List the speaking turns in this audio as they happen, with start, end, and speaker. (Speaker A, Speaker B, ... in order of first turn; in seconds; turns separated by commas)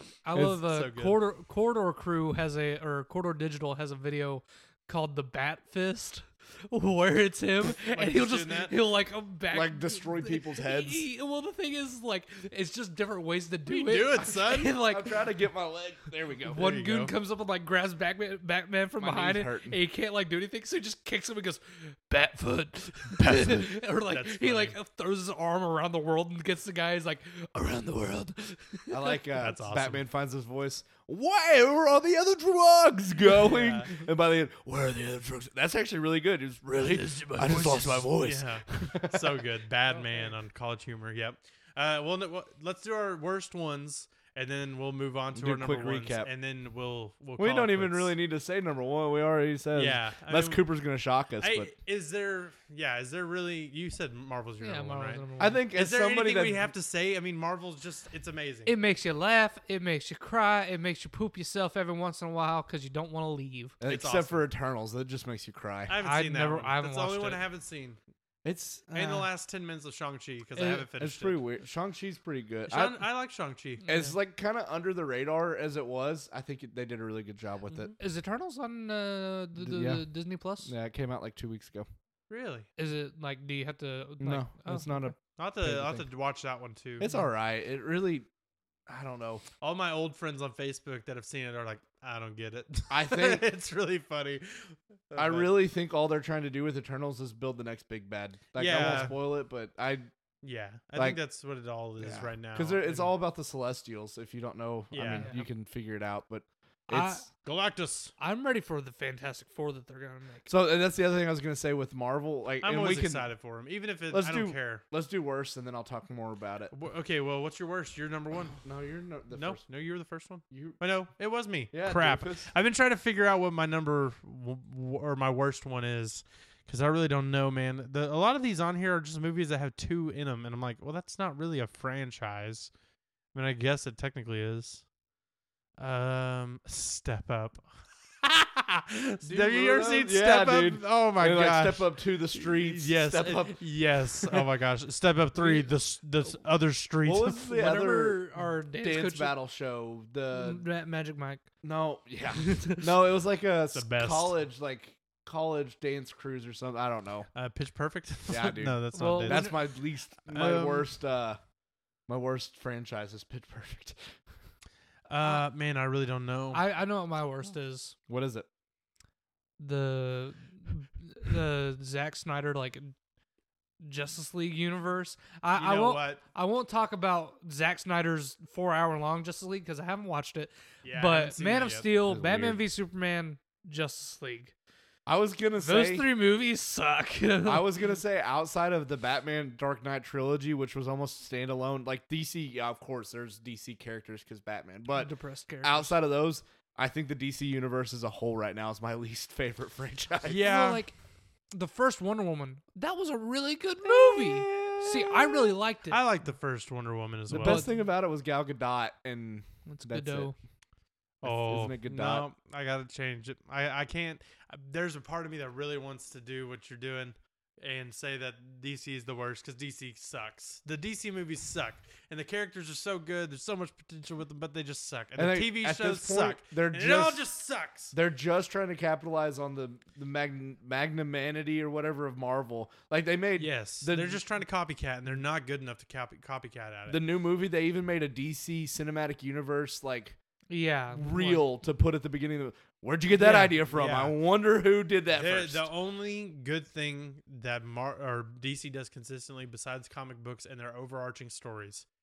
Speaker A: 0.2-15.2, Speaker B: 0.3-1.2, Speaker B: 7.8-8.7, Speaker C: 9.5-11.1, Speaker B: 13.7-14.8, Speaker C: 14.8-16.6, Speaker B: 16.5-17.1, Speaker A: 16.5-29.2, Speaker C: 19.0-19.8, Speaker B: 24.1-24.8, Speaker C: 28.9-39.5, Speaker B: 29.3-30.0, Speaker B: 33.3-33.9, Speaker B: 37.2-48.1, Speaker A: 39.9-40.3, Speaker C: 45.3-46.3, Speaker C: 47.4-51.7, Speaker B: 49.7-50.6, Speaker B: 51.4-58.7, Speaker A: 54.6-55.6, Speaker C: 55.4-56.7, Speaker A: 58.6-63.7, Speaker C: 63.8-66.0, Speaker B: 63.8-64.4, Speaker B: 65.9-68.0, Speaker A: 66.0-67.4, Speaker C: 68.4-69.2, Speaker B: 68.9-71.4, Speaker A: 70.5-70.9, Speaker C: 71.0-73.0, Speaker B: 72.7-73.8, Speaker A: 73.8-74.2, Speaker C: 73.8-77.9, Speaker B: 77.7-78.0, Speaker A: 78.0-80.7, Speaker C: 79.6-80.1, Speaker C: 80.6-81.9, Speaker B: 82.3-82.7, Speaker A: 82.8-85.1, Speaker C: 84.2-86.0, Speaker B: 85.4-87.1, Speaker C: 87.0-88.2, Speaker A: 87.0-87.3, Speaker C: 88.9-89.4, Speaker B: 89.6-95.5, Speaker C: 92.9-93.5, Speaker C: 95.2-100.1, Speaker B: 98.5-99.2, Speaker B: 100.4-103.1, Speaker C: 102.0-107.2, Speaker B: 104.9-105.3, Speaker A: 105.2-105.5, Speaker A: 106.9-107.3, Speaker B: 107.4-108.1, Speaker A: 108.2-110.5, Speaker C: 110.5-113.3, Speaker B: 112.6-114.8, Speaker C: 114.1-116.7, Speaker B: 116.7-118.6, Speaker C: 118.6-119.6, Speaker B: 119.3-132.7, Speaker C: 120.5-120.8, Speaker C: 121.7-122.5, Speaker B: 133.3-134.9, Speaker B: 135.8-147.4, Speaker C: 139.2-143.6, Speaker A: 145.4-145.7, Speaker C: 147.0-148.2, Speaker A: 147.4-149.3, Speaker C: 148.8-150.6, Speaker A: 150.3-151.4, Speaker C: 151.6-157.3, Speaker A: 152.3-152.8, Speaker B: 153.7-154.3, Speaker B: 157.3-160.9, Speaker C: 158.3-161.4, Speaker A: 158.9-159.6, Speaker C: 162.1-164.2, Speaker B: 165.1-166.6, Speaker A: 166.5-167.9, Speaker C: 168.1-168.5, Speaker A: 169.6-172.9, Speaker A: 173.8-184.5, Speaker B: 175.5-176.2, Speaker B: 180.8-181.9, Speaker C: 182.0-182.6, Speaker C: 185.1-186.1, Speaker A: 185.6-187.8, Speaker C: 187.4-200.4, Speaker A: 194.9-196.0, Speaker B: 200.2-200.8, Speaker A: 200.3-200.9, Speaker A: 201.5-206.0, Speaker C: 203.8-205.5, Speaker B: 205.9-207.7, Speaker A: 207.3-207.8, Speaker C: 207.3-210.3, Speaker A: 209.7-210.3, Speaker B: 211.2-227.9, Speaker C: 211.2-212.3, Speaker C: 225.2-227.3, Speaker C: 227.9-234.2, Speaker B: 233.4-237.0, Speaker C: 236.9-240.2, Speaker A: 240.5-241.4, Speaker C: 240.9-245.7, Speaker A: 243.2-243.5, Speaker B: 243.2-244.2, Speaker B: 245.1-251.8